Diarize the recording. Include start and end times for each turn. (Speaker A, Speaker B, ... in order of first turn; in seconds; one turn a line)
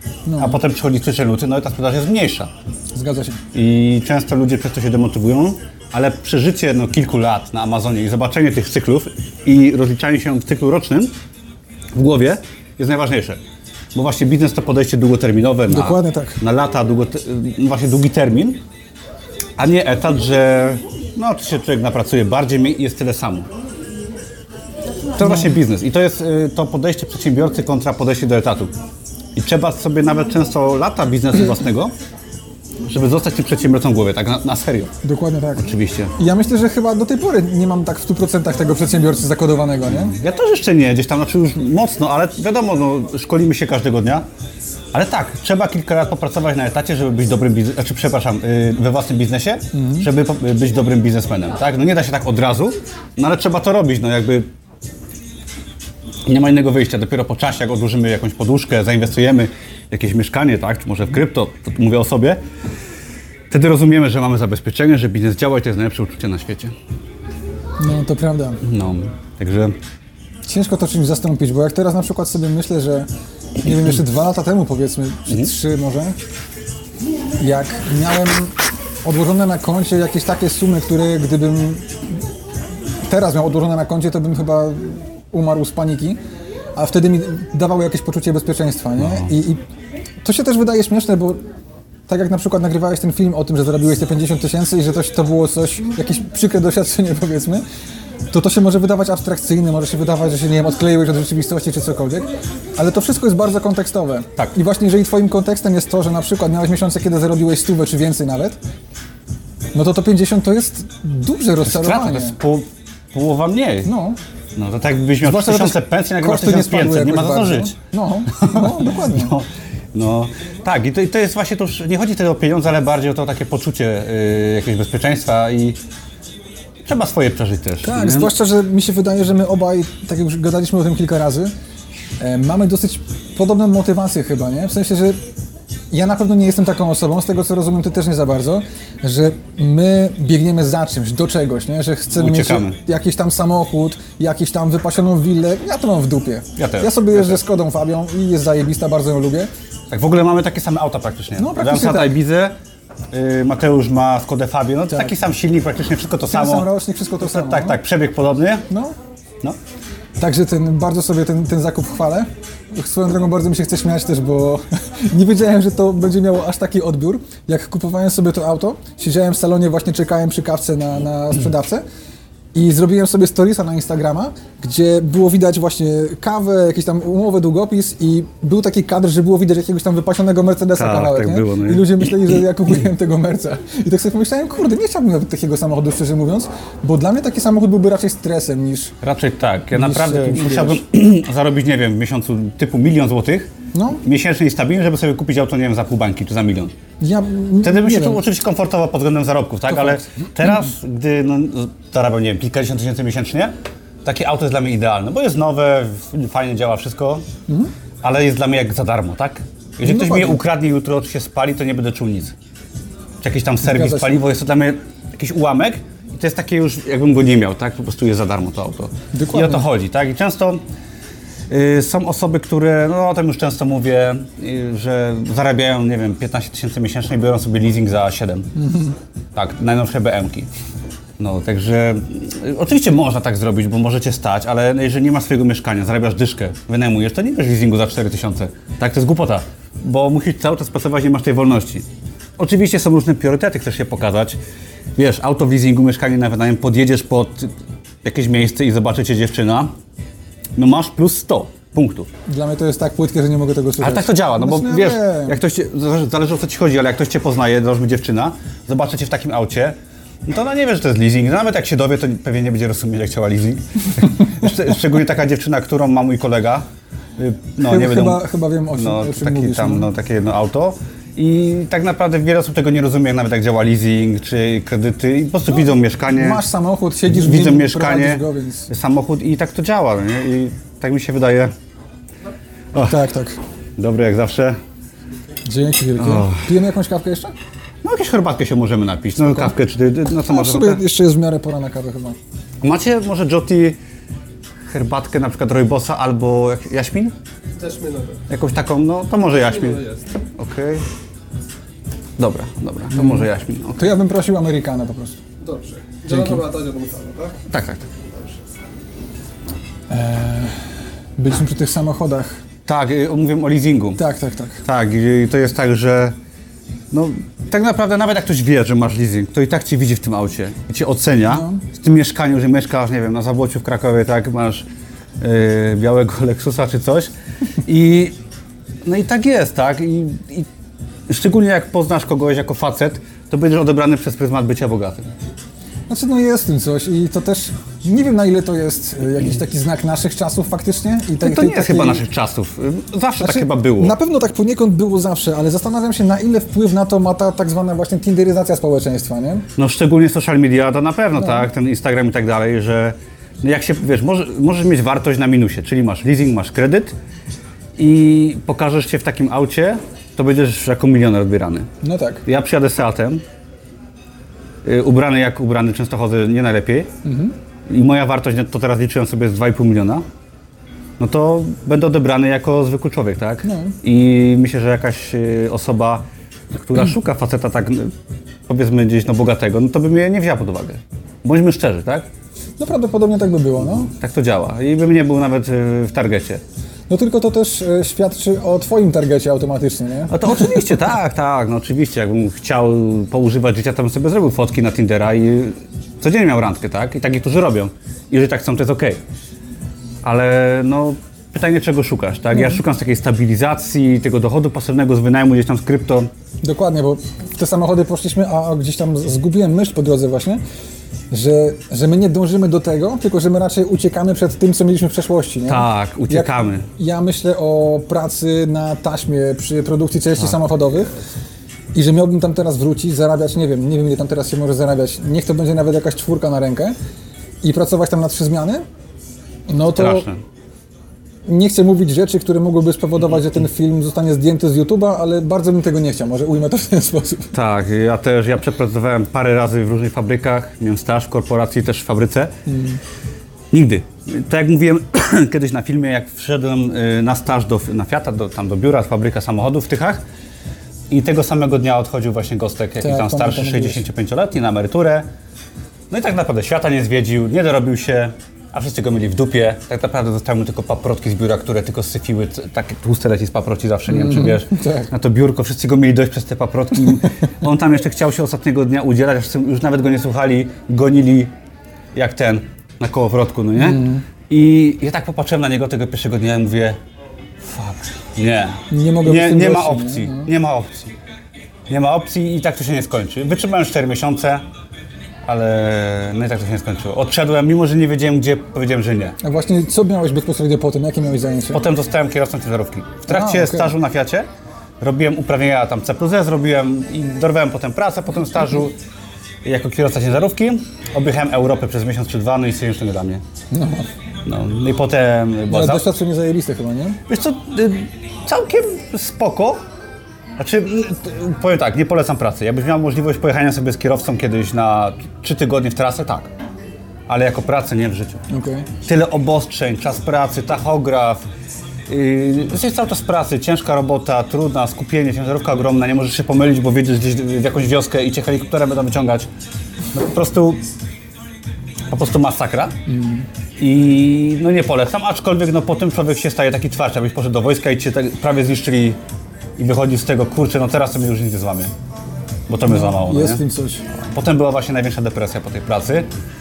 Speaker A: 0.3-0.6
Speaker B: 0.4-2.5
Speaker A: 2.9-3.4
Speaker B: 3.5-11.1
Speaker B: 11.9-13.4
Speaker B: 13.9-18.6
Speaker A: 15.7-16.4
Speaker B: 19.6-23.5
Speaker B: 25.2-28.7
Speaker A: 25.2-25.5
Speaker B: 29.4-31.9
Speaker B: 32.9-34.9
Speaker A: 35.0-40.1
Speaker B: 35.6-36.1
Speaker B: 39.9-44.2
Speaker B: 44.9-54.5
Speaker A: 49.7-50.1
Speaker B: 56.2-62.4
Speaker B: 63.5-66.7
Speaker A: 67.8-68.6
Speaker B: 68.6-69.8
Speaker A: 70.5-73.1
Speaker A: 73.6-76.2
Speaker A: 77.4-82.0
Speaker A: 83.1-86.2
Speaker A: 86.7-89.6
Speaker B: 89.0-89.3
Speaker A: 90.2-91.4
Speaker A: 92.1-97.6
Speaker A: 98.3-108.6
Speaker A: 109.7-112.4
Speaker B: 111.6-113.9
Speaker A: 113.8-114.2
Speaker B: 114.5-117.7
Speaker A: 115.2-119.3
Speaker B: 118.3-125.8
Speaker B: 126.8-128.3
Speaker A: 127.8-131.5
Speaker A: 132.2-135.2
Speaker A: 135.9-149.5
Speaker B: 142.1-142.8
Speaker B: 146.6-147.4
Speaker B: 149.9-152.5
Speaker A: 151.4-152.1
Speaker B: 153.1-156.7
Speaker A: 154.9-155.1
Speaker A: 156.3-157.8
Speaker B: 157.2-158.7
Speaker A: 158.7-158.9
Speaker A: 160.2-171.8
Speaker A: 172.5-188.9
Speaker B: 180.8-182.1
Speaker B: 189.0-193.5
Speaker A: 189.7-190.8
Speaker A: 193.7-194.0
Speaker B: 194.0-196.7
Speaker A: 197.0-198.2
Speaker B: 197.6-207.2
Speaker A: 199.7-200.3
Speaker B: 208.0-212.3
Speaker A: 209.8-210.4
Speaker B: 213.2-220.6
Speaker A: 213.6-214.2
Speaker A: 219.1-219.7
Speaker B: 221.5-228.5
Speaker A: 228.6-228.9
Speaker B: 229.3-230.5
Speaker B: 231.2-244.4
Speaker B: 244.9-247.5
Speaker B: 248.0-249.7
Speaker B: 250.6-252.1
Speaker A: 252.3-255.4
Speaker B: 253.8-259.7
Speaker B: 260.2-266.6
Speaker B: 267.2-268.2
Speaker A: 267.6-269.9
Speaker B: 268.8-276.4
Speaker A: 276.2-278.7
Speaker B: 277.1-281.5
Speaker B: 282.7-283.0
Speaker A: 282.8-283.4
Speaker B: 283.8-284.6
Speaker A: 285.4-287.3
Speaker B: 286.0-286.5
Speaker B: 287.8-290.8
Speaker A: 290.2-292.2
Speaker B: 292.6-293.8
Speaker B: 294.7-297.1
Speaker C: 297.6-298.2
Speaker B: 298.3-300.8
Speaker C: 299.5-300.0
Speaker B: 302.2-303.9
Speaker A: 302.9-305.2
Speaker C: 305.4-307.4
Speaker B: 307.5-307.9
Speaker A: 309.9-312.4
Speaker B: 312.6-314.0
Speaker A: 314.0-314.6
Speaker B: 314.6-316.1
Speaker B: 316.9-324.6
Speaker A: 321.3-321.6
Speaker B: 325.2-327.1
Speaker B: 327.6-328.1
Speaker B: 328.8-330.5
Speaker B: 331.1-335.1
Speaker A: 335.9-342.0
Speaker B: 341.2-344.0
Speaker A: 343.2-349.4
Speaker B: 349.6-356.9
Speaker B: 357.8-361.7
Speaker A: 361.8-362.2
Speaker B: 362.2-363.2
Speaker B: 364.6-366.9
Speaker A: 367.0-367.3
Speaker B: 367.7-370.0
Speaker B: 371.0-377.9
Speaker A: 373.4-373.8
Speaker B: 378.5-382.1
Speaker A: 382.6-383.9
Speaker B: 383.8-386.4
Speaker A: 386.9-390.6
Speaker B: 390.1-399.0
Speaker B: 400.0-406.1
Speaker A: 406.4-410.4
Speaker A: 411.1-420.9
Speaker B: 415.5-416.7
Speaker A: 421.7-426.7
Speaker A: 427.4-428.6
Speaker A: 429.5-430.1
Speaker B: 429.7-430.2
Speaker A: 431.2-437.3
Speaker B: 437.3-442.3
Speaker A: 442.5-442.8
Speaker B: 443.5-450.0
Speaker B: 450.9-455.1
Speaker A: 452.8-453.8
Speaker B: 455.9-471.3
Speaker A: 463.9-464.9
Speaker B: 471.9-476.8
Speaker A: 473.6-474.1
Speaker B: 477.5-480.9
Speaker A: 478.7-480.3
Speaker B: 481.7-484.4
Speaker B: 485.2-489.2
Speaker A: 489.2-491.6
Speaker B: 491.5-494.3
Speaker A: 493.1-493.7
Speaker B: 494.8-498.8
Speaker B: 499.4-503.2
Speaker A: 503.5-503.9
Speaker B: 504.2-505.9
Speaker A: 505.5-507.0
Speaker B: 507.1-509.6
Speaker B: 510.4-516.3
Speaker B: 517.1-518.2
Speaker A: 518.3-518.7
Speaker B: 518.8-521.2
Speaker B: 521.9-529.3
Speaker B: 529.9-530.6
Speaker B: 531.9-532.7
Speaker A: 532.9-533.3
Speaker B: 533.6-539.0
Speaker B: 539.6-541.7
Speaker B: 542.5-543.4
Speaker A: 542.6-543.8
Speaker B: 544.1-546.1